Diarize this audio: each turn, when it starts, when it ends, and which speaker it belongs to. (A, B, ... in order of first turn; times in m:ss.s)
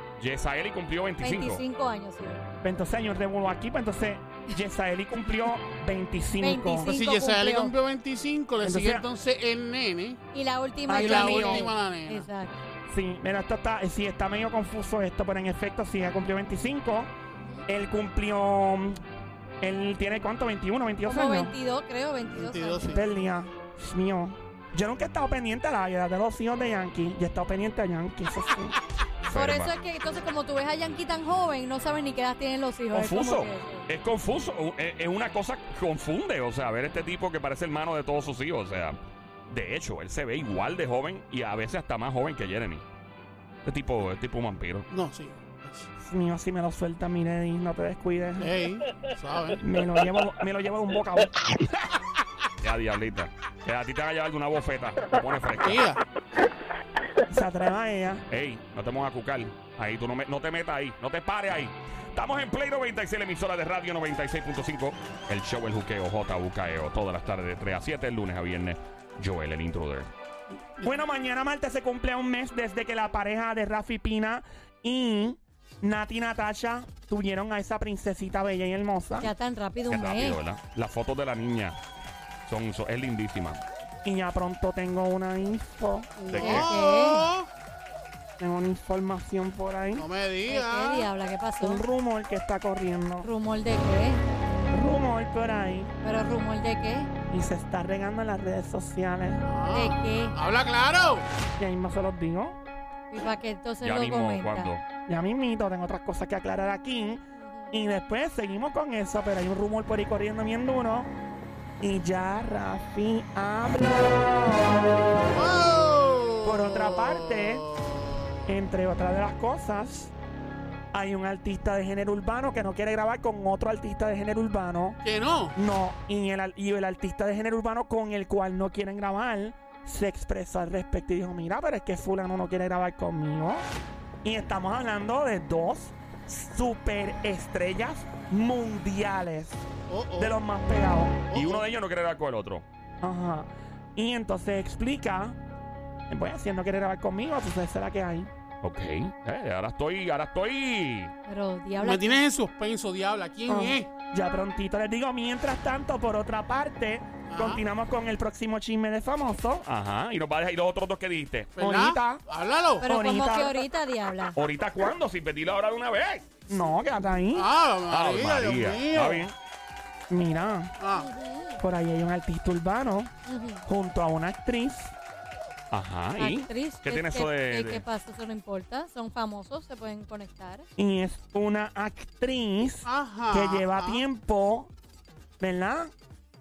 0:00.2-0:01.6 A
0:01.2-0:02.4 B
0:02.6-0:06.9 C
0:06.4-0:07.7 B
0:06.8-0:10.2 D
0:08.6-0:09.0 C
0:10.3-0:12.6 B
0:10.9-0:11.7 C
0:10.9-0:12.3 D
0:12.9-0:17.1 C
0:17.7-0:19.0 C
0:19.6-0:21.5 C
0:21.0-0:23.0 B
0:22.3-0:23.0 D
0:22.8-0:28.8 C
0:29.2-0:29.7 A
0:29.3-0:33.9 B
0:32.9-0:39.0 A
0:39.5-0:42.8 A
0:43.6-0:44.9 A
0:44.9-0:45.9 D
0:46.0-0:48.6 C
0:48.4-0:49.6 D
0:49.6-0:51.6 C
0:52.6-0:55.9 A
0:55.6-0:56.0 D
0:57.3-0:58.2 C
0:58.3-1:10.1 A
1:10.8-1:19.3 C
1:19.2-1:20.4 B
1:19.9-1:21.8 A
1:22.5-1:23.6 A
1:24.0-1:26.1 C
1:26.2-1:27.5 D
1:26.3-1:26.7 A
1:26.4-1:27.3 B
1:28.4-1:30.0 C
1:29.9-1:31.1 D
1:30.5-1:31.8 B
1:31.6-1:33.3 C
1:33.2-1:34.2 B
1:34.7-1:35.9 C
1:36.0-1:37.1 B
1:37.3-1:39.4 C
1:39.4-1:41.3 D
1:39.7-1:40.4 B
1:41.6-1:42.6 C
1:43.1-1:44.7 B
1:43.8-1:44.8 A
1:45.1-1:51.1 C
1:47.4-1:47.7 B
1:51.8-1:55.3 C
1:55.3-1:58.4 D
1:56.4-1:57.6 C
1:58.5-2:00.1 C
2:00.9-2:05.0 C
2:05.0-2:05.5 D
2:05.5-2:13.6 C
2:14.2-2:19.6 C
2:19.9-2:20.4 D
2:20.2-2:21.3 C
2:21.3-2:21.6 D
2:21.3-2:22.6 A
2:23.0-2:25.4 C
2:26.1-2:28.3 C
2:28.6-2:31.1 A
2:31.3-2:32.2 B
2:31.8-2:33.9 D
2:33.5-2:39.6 C
2:37.3-2:37.6 D
2:39.7-2:41.5 A
2:41.6-2:42.9 D
2:41.6-2:42.2 C
2:42.8-2:44.4 B
2:42.8-2:43.6 C
2:44.4-2:46.4 A
2:46.5-2:47.5 C
2:47.3-2:49.3 D
2:47.9-2:49.3 A
2:50.1-2:50.7 C
2:50.8-2:51.1 D
2:50.9-2:51.6 B
2:51.6-2:53.1 C
2:53.3-2:53.6 B
2:53.7-2:54.9 C
2:55.7-2:57.8 A
2:56.2-3:00.6 B
3:00.8-3:04.7 C
3:02.8-3:04.0 D
3:05.4-3:05.9 C